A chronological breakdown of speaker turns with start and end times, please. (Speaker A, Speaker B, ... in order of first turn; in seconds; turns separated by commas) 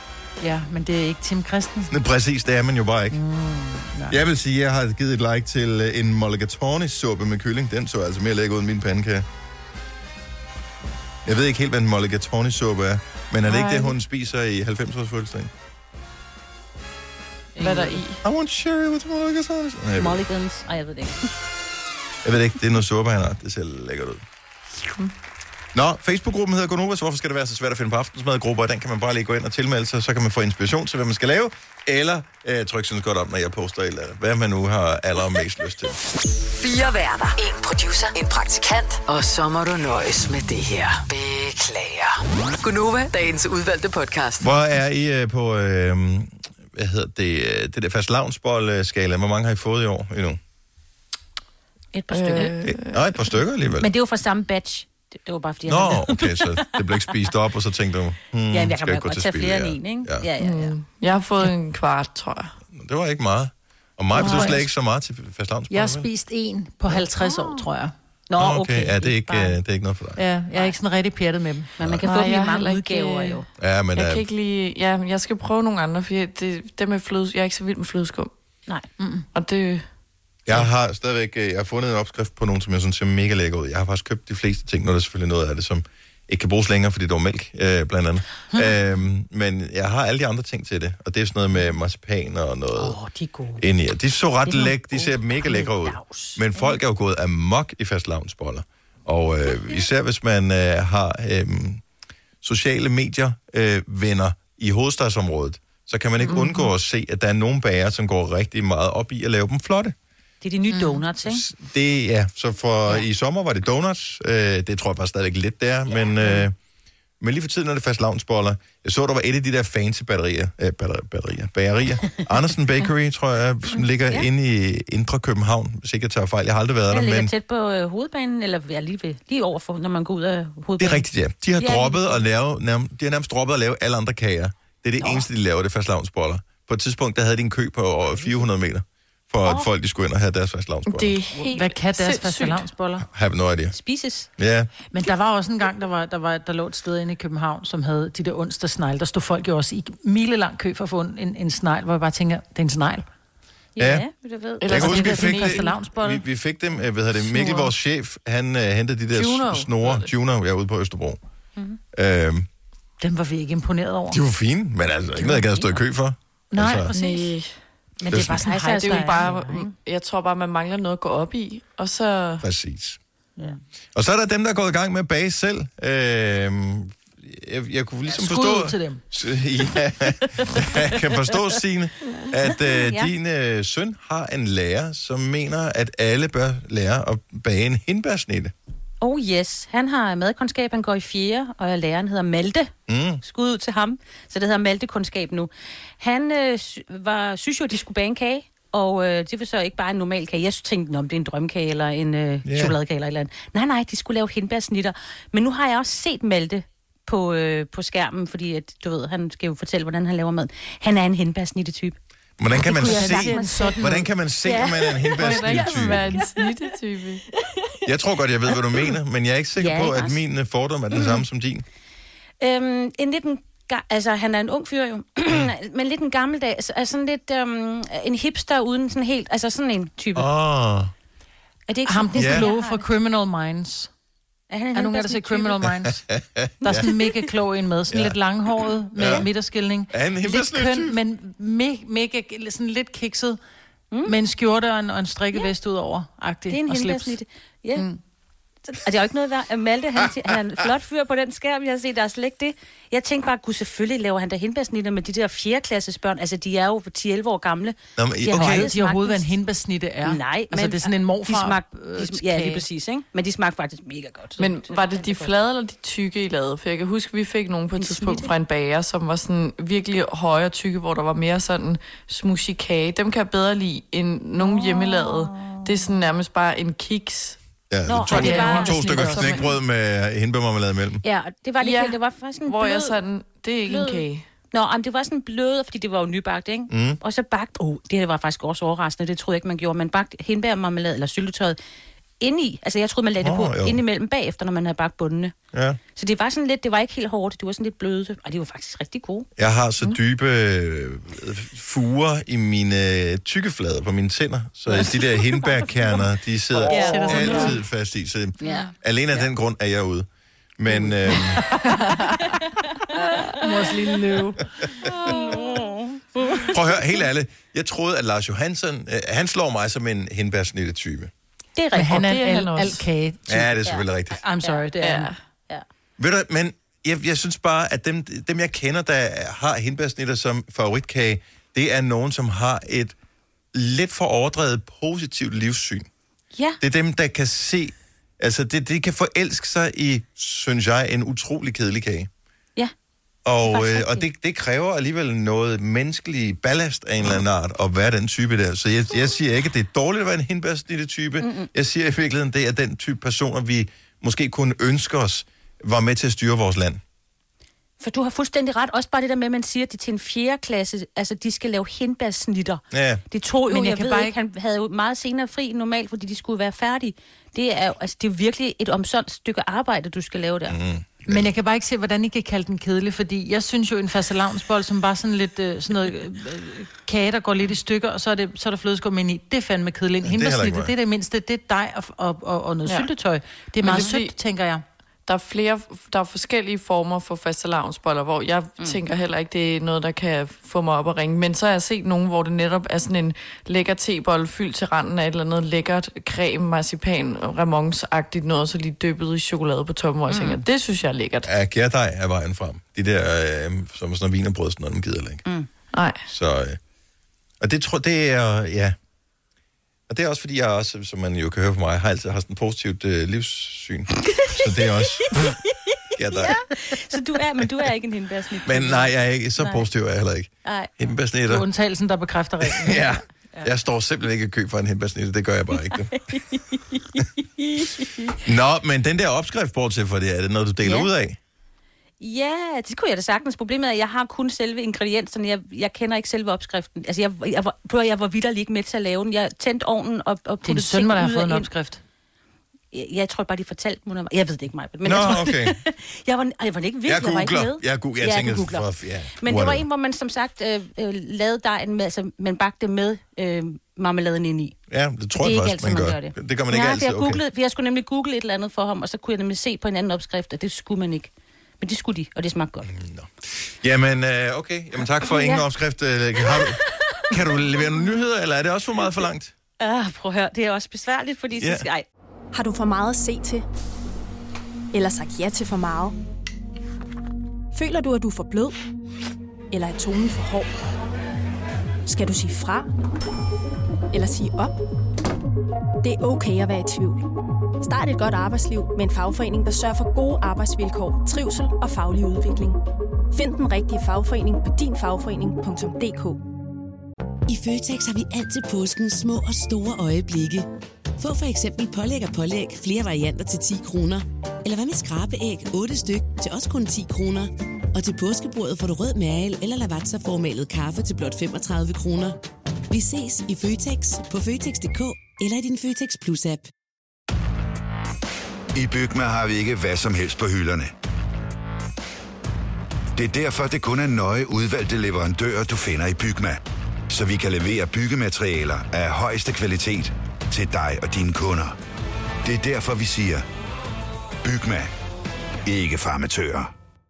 Speaker A: 0.4-1.9, Speaker B: 1.9-3.2, Speaker A: 3.1-4.2, Speaker B: 4.1-9.3, Speaker B: 11.2-15.5, Speaker C: 13.5-13.9, Speaker D: 17.6-18.0, Speaker C: 17.6-18.2, Speaker B: 18.2-20.2, Speaker D: 20.0-21.3, Speaker B: 22.2-24.2, Speaker B: 25.7-36.0, Speaker E: 36.6-44.5, Speaker B: 44.4-50.4, Speaker D: 51.9-52.7, Speaker C: 52.1-53.1, Speaker B: 52.4-53.9, Speaker D: 53.8-57.3, Speaker B: 55.7-60.3, Speaker D: 58.5-60.8, Speaker C: 60.4-62.5, Speaker B: 62.7-66.1, Speaker C: 64.1-64.6, Speaker A: 64.2-64.6, Speaker A: 65.7-67.9, Speaker D: 67.2-67.6, Speaker D: 68.3-69.6, Speaker B: 68.3-70.2, Speaker A: 70.2-71.7, Speaker D: 71.8-73.5, Speaker C: 72.0-73.3, Speaker B: 73.6-74.2, Speaker C: 73.9-78.3, Speaker A: 79.0-79.2, Speaker C: 79.3-79.9, Speaker B: 80.5-93.0, Speaker D: 92.8-93.6, Speaker B: 93.6-101.8, Speaker D: 94.5-96.8, Speaker B: 102.4-110.0, Speaker C: 106.3-106.7, Speaker D: 110.4-111.4, Speaker A: 110.7-111.0, Speaker B: 111.2-116.5, Speaker B: 117.2-127.3, Speaker D: 123.8-124.3, Speaker D: 126.9-131.1, Speaker B: 130.8-141.2, Speaker D: 131.6-132.2, Speaker D: 135.0-135.3, Speaker C: 140.9-142.7, Speaker A: 141.4-143.1, Speaker B: 143.1-143.8, Speaker D: 143.7-144.3, Speaker B: 144.4-144.7, Speaker A: 144.9-153.1, Speaker D: 153.8-154.9, Speaker B: 153.8-154.0, Speaker C: 154.6-155.7, Speaker B: 154.7-161.2, Speaker A: 154.7-156.2, Speaker C: 157.2-157.7, Speaker C: 159.1-160.1, Speaker B: 161.9-162.5, Speaker A: 163.0-164.2, Speaker B: 164.1-166.9, Speaker D: 165.3-165.8, Speaker A: 166.5-167.4, Speaker C: 166.9-167.5, Speaker A: 168.0-169.7, Speaker B: 168.1-168.4, Speaker D: 168.1-169.7, Speaker C: 168.8-172.4, Speaker B: 172.4-173.0, Speaker B: 173.9-188.5, Speaker A: 178.1-179.0, Speaker D: 182.5-183.1, Speaker D: 189.0-192.7, Speaker B: 192.9-193.2, Speaker D: 193.2-212.0, Speaker B: 202.4-202.8, Speaker B: 212.4-216.1, Speaker D: 212.6-213.9, Speaker A: 212.8-214.1, Speaker D: 214.4-216.4, Speaker C: 215.2-217.2, Speaker B: 217.8-221.7, Speaker D: 219.6-220.2, Speaker D: 220.9-221.2, Speaker D: 222.4-230.3, Speaker B: 230.2-230.9, Speaker D: 231.7-232.9, Speaker A: 231.9-233.9, Speaker B: 232.2-232.5, Speaker D: 234.5-235.7, Speaker A: 234.8-236.0, Speaker B: 235.8-236.9, Speaker A: 236.6-243.4, Speaker B: 237.9-238.2, Speaker B: 238.9-239.3, Speaker B: 239.9-241.0, Speaker A: 244.1-247.2, Speaker D: 246.5-247.9, Speaker D: 248.7-259.3, Speaker B: 258.0-258.7, Speaker A: 258.4-262.6, Speaker D: 260.0-265.3, Speaker C: 264.4-277.4, Speaker D: 267.8-268.3, Speaker B: 277.7-281.0, Speaker D: 277.9-279.4, Speaker C: 278.1-279.4, Speaker A: 278.1-279.4, Speaker D: 281.0-283.0, Speaker C: 281.6-284.2, Speaker D: 283.7-291.6, Speaker B: 286.7-287.0, Speaker D: 292.2-295.3, Speaker B: 293.2-293.8, Speaker B: 295.5-295.8, Speaker D: 295.9-299.3, Speaker B: 299.4-310.1, Speaker D: 304.7-305.8, Speaker A: 306.7-307.6, Speaker D: 306.7-307.5, Speaker C: 307.2-307.5, Speaker D: 308.4-309.3, Speaker B: 310.6-311.4, Speaker C: 311.7-312.0, Speaker A: 313.4-314.4, Speaker D: 314.9-316.6, Speaker B: 316.5-321.1, Speaker D: 321.6-322.0, Speaker A: 321.8-323.6, Speaker C: 321.9-322.9, Speaker B: 323.3-324.2, Speaker A: 324.1-325.1, Speaker C: 324.8-325.2, Speaker B: 326.0-332.9, Speaker B: 333.5-335.9, Speaker D: 336.3-336.6, Speaker B: 336.6-342.1, Speaker B: 343.2-356.8, Speaker D: 343.4-344.1, Speaker D: 351.2-351.5, Speaker D: 357.8-370.6, Speaker B: 362.7-363.0, Speaker A: 363.5-364.1, Speaker B: 370.5-371.3, Speaker A: 371.1-384.6, Speaker B: 380.0-380.7, Speaker C: 383.6-384.1, Speaker C: 385.1-401.3, Speaker D: 400.1-400.4, Speaker B: 401.2-405.2, Speaker C: 405.7-406.0, Speaker B: 406.1-406.6, Speaker B: 407.4-408.8, Speaker B: 409.9-415.3, Speaker B: 415.9-416.4, Speaker D: 416.1-419.7, Speaker B: 418.4-421.4, Speaker D: 420.4-420.7, Speaker A: 421.3-422.9, Speaker B: 422.4-426.0, Speaker D: 426.1-428.2, Speaker B: 428.2-431.2, Speaker D: 430.6-430.9, Speaker D: 432.0-441.5, Speaker A: 440.4-441.8, Speaker D: 442.7-448.7, Speaker B: 444.8-445.6, Speaker B: 446.9-449.6, Speaker D: 449.2-454.6, Speaker B: 454.7-457.2, Speaker D: 455.2-462.7, Speaker B: 462.6-469.3, Speaker D: 465.0-465.4, Speaker D: 466.2-467.1, Speaker D: 469.6-471.8, Speaker B: 471.4-471.7, Speaker F: 472.3-473.4, Speaker F: 474.7-475.9, Speaker F: 477.5-478.6, Speaker F: 479.5-480.5, Speaker F: 481.8-482.7, Speaker F: 483.9-484.6, Speaker F: 485.8-487.1, Speaker F: 487.6-492.6, Speaker F: 493.1-496.2, Speaker G: 497.3-500.5, Speaker G: 501.0-512.2, Speaker G: 512.7-516.5, Speaker H: 518.5-520.7, Speaker H: 522.9-531.6, Speaker H: 532.2-533.2, Speaker H: 534.2-534.7, Speaker H: 535.5-536.5